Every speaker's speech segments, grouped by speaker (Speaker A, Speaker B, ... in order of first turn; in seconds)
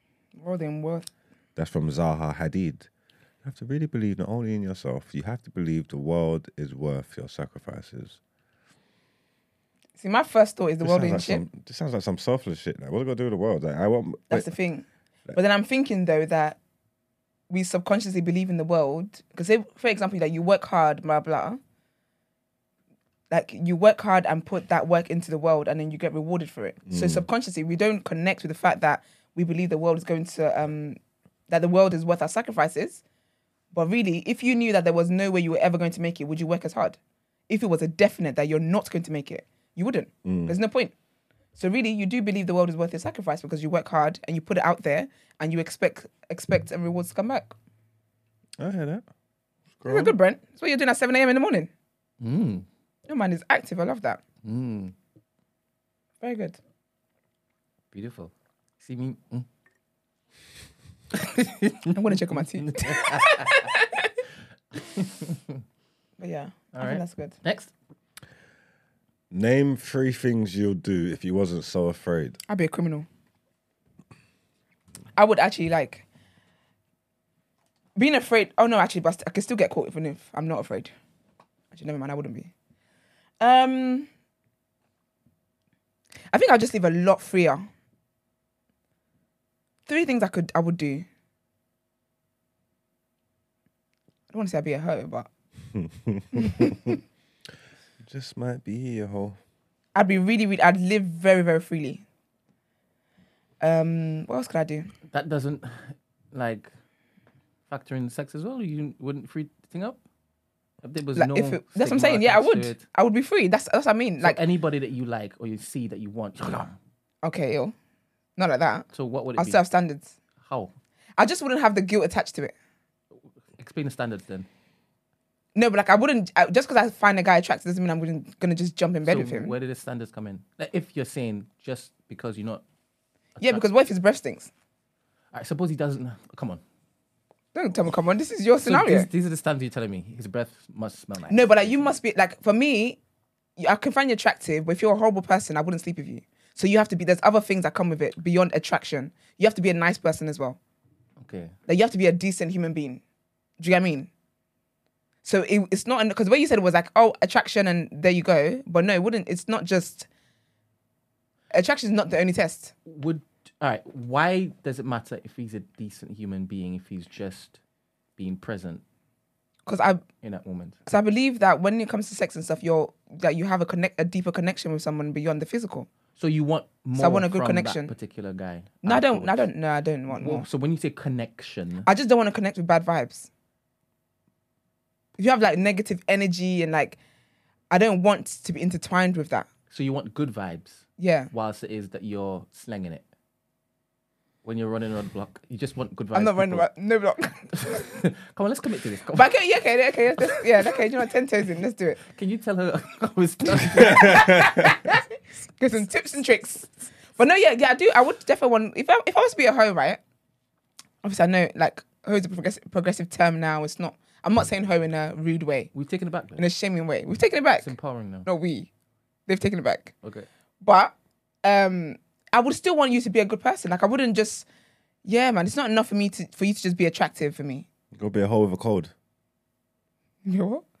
Speaker A: 0.4-1.1, 10.0-11.4, 14.3-16.6, 17.5-21.6, 23.3-33.0, 33.7-37.0, 37.5-40.9, 41.5-47.5, 49.9-51.7, 53.1-54.2, 56.2-56.6, 61.9-64.1, 66.2-67.3, 72.5-73.1, 75.2-76.0, 78.0-80.9, 81.7-82.5, 83.4-84.1, 86.3-87.7, 89.9-91.0, 94.3-95.3, 96.3-97.0, 99.9-102.0, 103.6-104.9, 111.1-114.4, 117.2-117.7, 118.4-120.1, 121.2-122.5, 125.5-129.5, 133.4-134.5, 137.5-139.1, 141.3-143.0, 143.6-150.6, 151.7-153.0, 153.6-154.1, 155.2-160.1, 161.5-162.7, 169.7-170.0, 170.9-175.9, 177.0-177.9, 178.8-180.4, 181.8-183.3, 185.2-187.0, 187.7-189.5, 191.0-191.3, 196.1-197.9, 199.1-202.0, 203.6-205.0, 205.6-210.0, 211.0-215.7, 216.4-217.7, 218.2-218.7, 219.3-219.9, 220.6-224.4, 225.0-227.7, 230.2-230.6
Speaker B: 1.6-2.9, 3.4-8.2, 10.8-14.5, 26.9-27.2, 40.2-40.5, 48.6-49.0, 49.8-50.1, 69.3-72.4, 95.8-96.8, 98.0-99.4, 203.8-204.6, 227.9-228.9
Speaker C: 52.2-52.6, 54.4-54.9, 57.9-59.5, 61.1-63.7, 64.7-65.6, 66.7-67.7, 105.1-106.7, 107.7-110.0, 110.8-112.8, 114.2-116.7, 118.9-119.6, 120.4-120.7, 123.6-124.5, 129.0-132.6, 133.4-133.6, 135.3-136.6, 138.6-141.9, 151.2-151.5, 162.8-167.6, 168.2-168.8, 170.2-170.8, 176.2-179.5, 180.1-181.9, 189.7-193.0, 194.4-196.7, 197.5-199.3, 202.1-204.7, 215.7-216.4, 217.6-218.3, 220.0-220.3